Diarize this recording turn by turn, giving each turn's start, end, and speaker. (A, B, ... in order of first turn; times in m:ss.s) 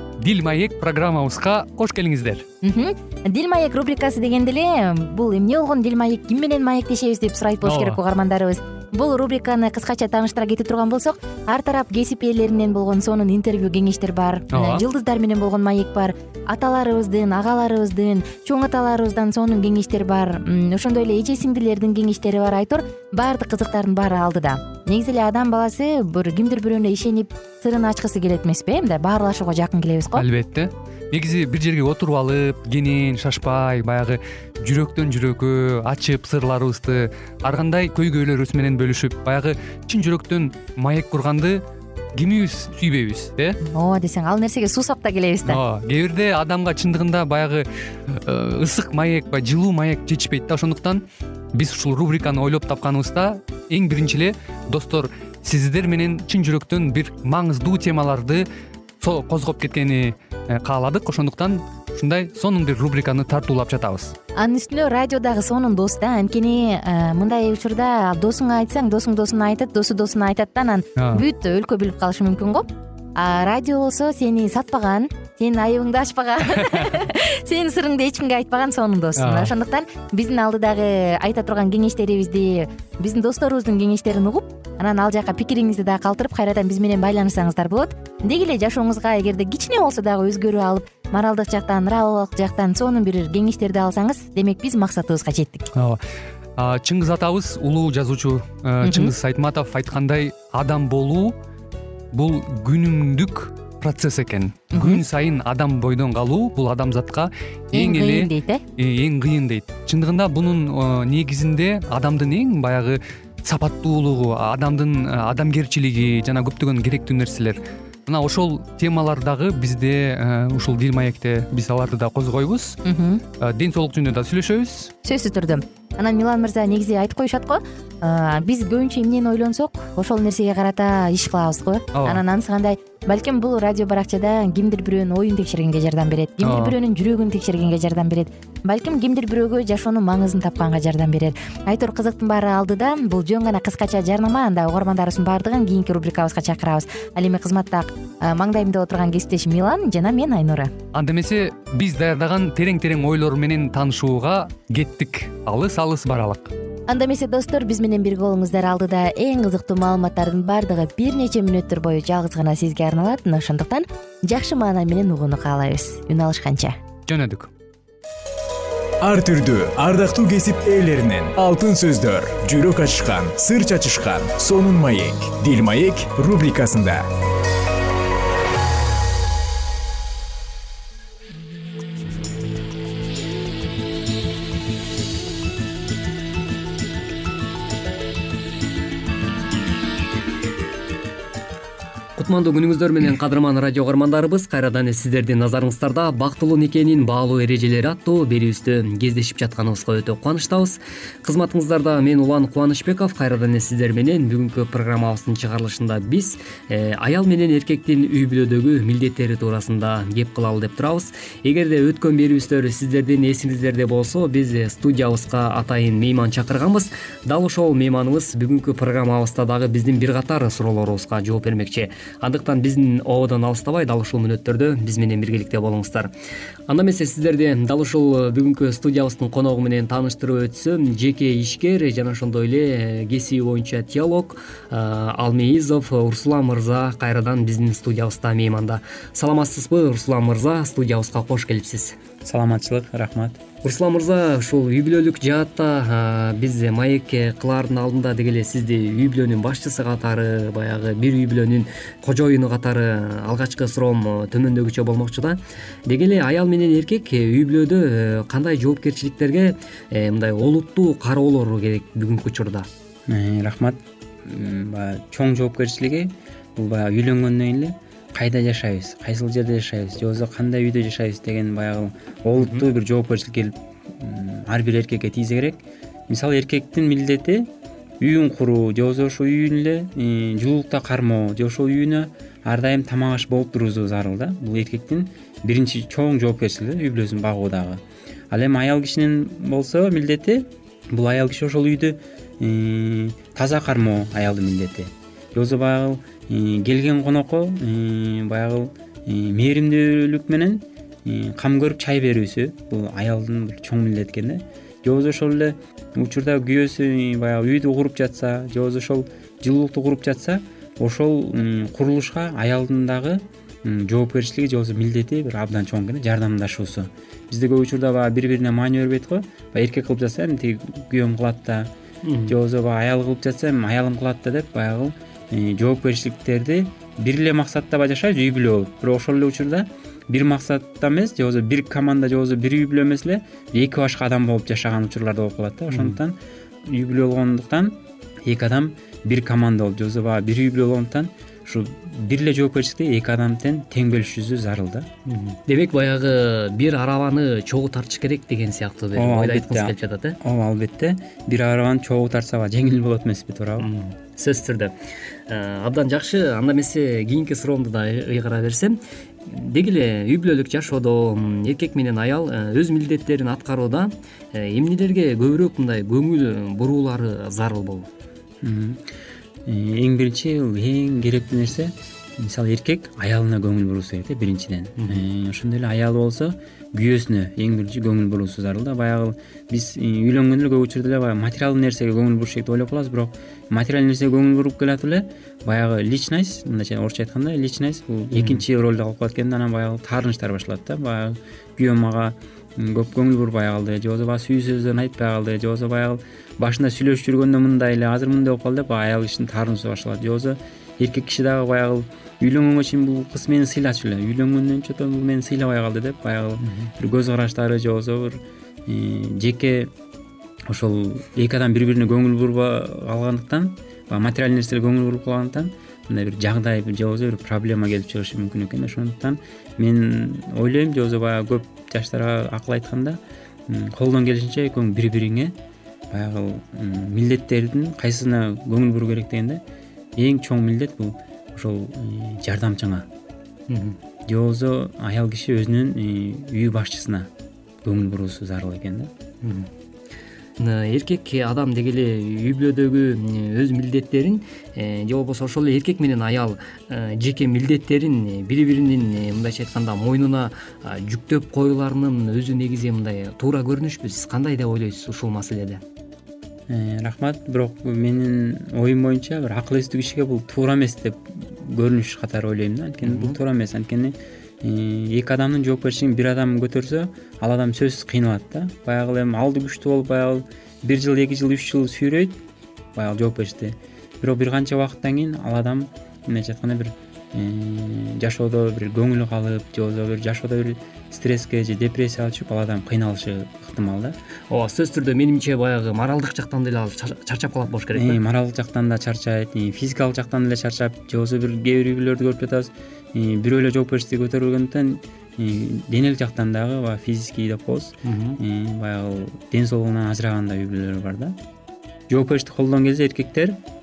0:00.2-0:02.4 A
0:02.6-0:30.2 B
0:07.6-0:08.0 A
0:14.5-0:14.8 A
0:30.2-0:41.6 A
0:42.2-0:43.6 A
0:43.6-0:45.6 B
0:45.5-0:51.0 A
0:51.5-0:58.5 A
0:59.0-1:04.2 A
1:04.4-1:35.7 B
1:11.0-1:11.2 A
1:16.6-1:17.0 A
1:19.2-1:19.5 A
1:36.6-1:41.3 A
1:38.8-1:39.1 B
1:42.1-2:02.8 A
1:44.7-1:45.0 B
1:47.7-1:48.6 B
2:02.8-2:03.2 B
2:03.4-2:04.9 A
2:05.0-2:30.7 B
2:11.9-2:12.2 A
2:16.4-2:16.8 A
2:30.9-2:36.5 A
2:36.9-2:46.8 B
2:47.1-2:47.5 A
2:49.0-2:57.1 C
3:12.2-3:46.1 D
3:46.7-4:02.0 D
4:02.2-4:03.4 E
4:03.6-4:22.7 D
4:23.1-4:37.5 E
4:32.4-4:32.7 D
4:38.0-5:21.7 E
5:22.0-5:22.4 D
5:22.3-5:44.9 E
5:35.7-5:36.0 D
5:45.1-5:50.2 D
5:49.0-5:53.7 E
5:53.6-5:54.7 D
5:55.3-6:07.9 D
6:08.4-6:08.8 E
6:09.5-6:49.7 E
6:28.1-6:28.4 D
6:50.5-7:05.4 E
7:05.9-7:09.4 E
7:10.0-7:12.9 E
7:13.5-7:13.8 D
7:14.1-7:17.1 E
7:17.6-7:18.9 E
7:19.2-7:19.5 D
7:20.4-7:35.6 D
7:36.5-7:52.2 E
7:42.8-7:43.2 D
7:52.8-8:04.0 E
8:04.3-8:08.0 D
8:07.7-8:21.2 E
8:17.8-8:18.2 D
8:21.9-8:23.4 E